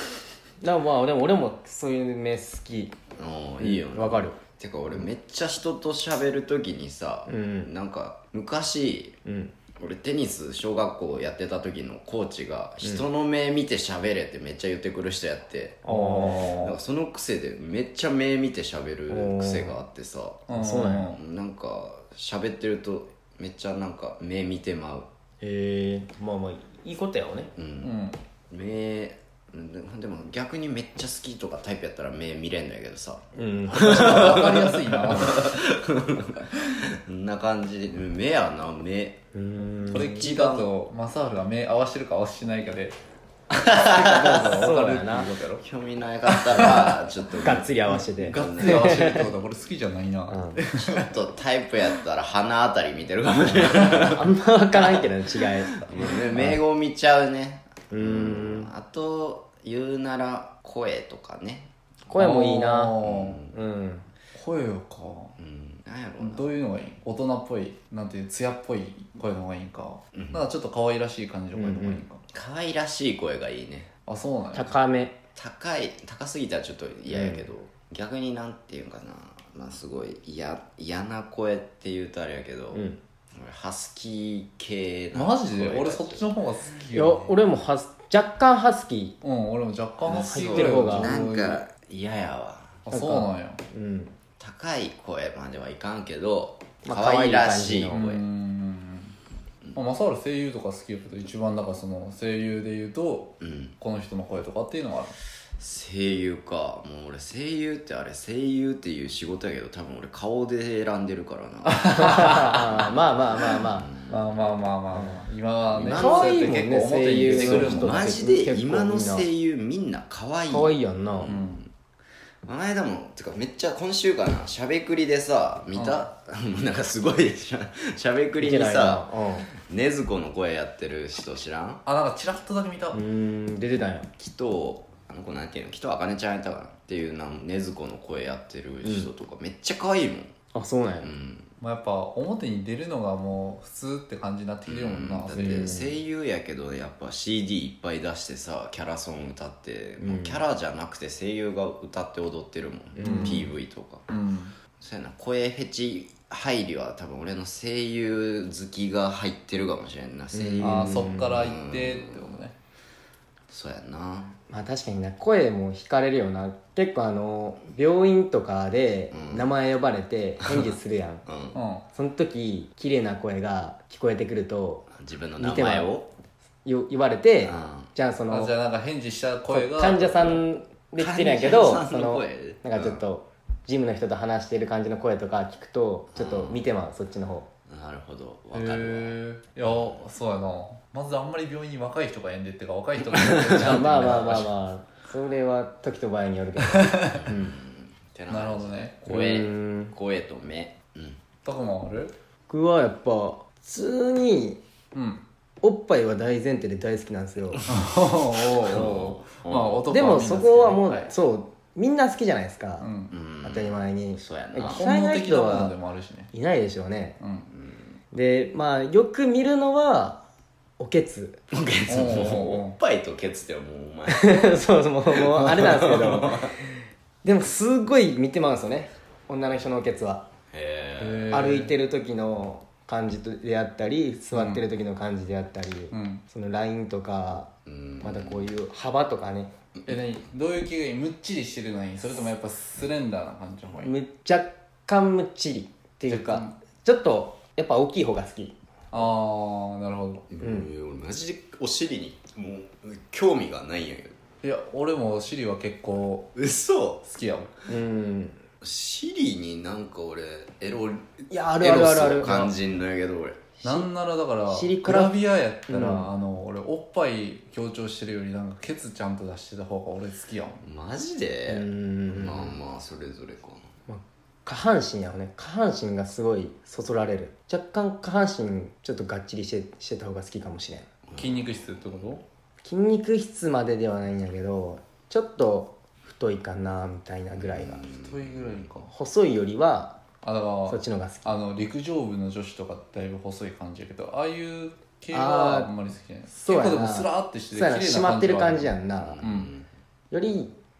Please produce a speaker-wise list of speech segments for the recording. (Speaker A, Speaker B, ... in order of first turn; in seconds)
Speaker A: 0.6-2.9, 3.6-4.4, 7.2-7.7, 9.2-9.5, 15.8-16.5, 19.1-19.8, 20.5-21.1, 25.4-27.5, 33.3-34.5, 39.3-40.3, 43.7-45.3, 47.4-49.3, 50.3-50.6, 54.1-56.6, 57.9-58.7, 62.1-63.0, 63.5-64.0, 71.5-72.0, 74.5-75.2, 77.1-77.4, 82.7-83.0, 86.9-89.2, 90.1-91.1, 92.9-94.1, 96.8-98.0, 112.0-113.9, 114.9-115.2, 115.9-119.3, 120.5-121.4, 128.4-129.5, 132.9-134.1, 138.8-139.1, 140.5-141.1, 145.3-145.9, 150.0-150.4, 152.9-153.5, 160.3-161.4, 164.5-171.2, 171.9-175.9, 176.6-178.6, 179.5-187.5, 193.6-197.6, 199.1-199.9, 202.5-204.6, 205.6-207.7, 209.9-212.9, 213.4-215.8, 216.3-217.2, 218.1-220.2, 220.8-221.4, 224.1-226.7, 227.2-230.2, 231.3-239.5, 243.7-248.5, 250.4-250.7, 257.7-258.4, 261.3-262.5, 263.6-263.9, 264.5-266.1, 271.5-272.6, 273.9-280.9, 282.6-287.9, 288.9-290.0, 290.6-291.4, 295.1-295.7, 296.3-299.2, 300.1-300.5
Speaker B: 3.2-9.1, 9.8-15.8, 16.4-20.6, 21.1-25.1, 27.6-39.2, 39.9-40.7, 43.5-44.5, 45.6-49.3, 50.8-55.0, 55.7-61.7, 63.0-63.6, 65.4-66.5, 70.1-70.4, 72.3-73.9, 75.3-86.3, 90.1-92.8, 94.4-98.2, 103.4-103.7, 105.6-112.9, 113.7-114.2, 115.7-116.4, 117.2-121.7, 122.5-131.8, 134.2-140.3, 141.0-141.5, 144.7-154.0, 154.8-162.4, 163.5-164.4, 169.1-169.5, 170.4-170.7, 171.2-171.6, 175.0-176.1, 177.4-177.9, 181.0-183.0, 186.1-186.6, 187.7-190.0, 193.1-193.8, 197.2-201.2, 208.5-209.9, 213.1-214.8, 217.5-217.8, 221.5-226.5, 230.5-231.3, 237.7-238.5, 250.3-254.2, 256.3-257.0, 258.6-263.4, 270.6-273.6, 281.1-282.1, 287.5-288.7, 299.0-299.7
Speaker C: 15.8-16.8, 20.5-21.2, 27.8-28.2, 33.7-35.6, 39.9-43.0, 44.0-45.6, 46.3-47.0, 48.0-51.2, 62.1-63.4, 64.3-65.3, 66.2-72.2, 74.1-74.7, 85.1-87.3, 89.2-91.6, 92.8-93.6, 97.9-99.2, 99.7-105.2, 111.8-112.7, 114.1-118.1, 121.3-121.6, 125.7-126.1, 131.8-133.0, 141.6-145.9, 153.0-153.5, 154.1-154.5, 160.6-162.6, 171.5-171.8, 178.3-180.4, 188.5-194.5, 196.8-197.2, 198.3-199.0, 201.4-202.1, 204.9-205.2, 207.7-211.1, 212.8-213.2, 214.6-216.3, 217.2-217.5, 221.9-222.8, 231.0-231.7, 234.3-234.6, 235.9-236.2, 239.9-243.9, 246.1-246.5, 248.9-250.3, 254.4-256.3, 257.0-257.5, 263.6-270.6, 281.2-282.2, 287.9-288.9, 290.2-299.5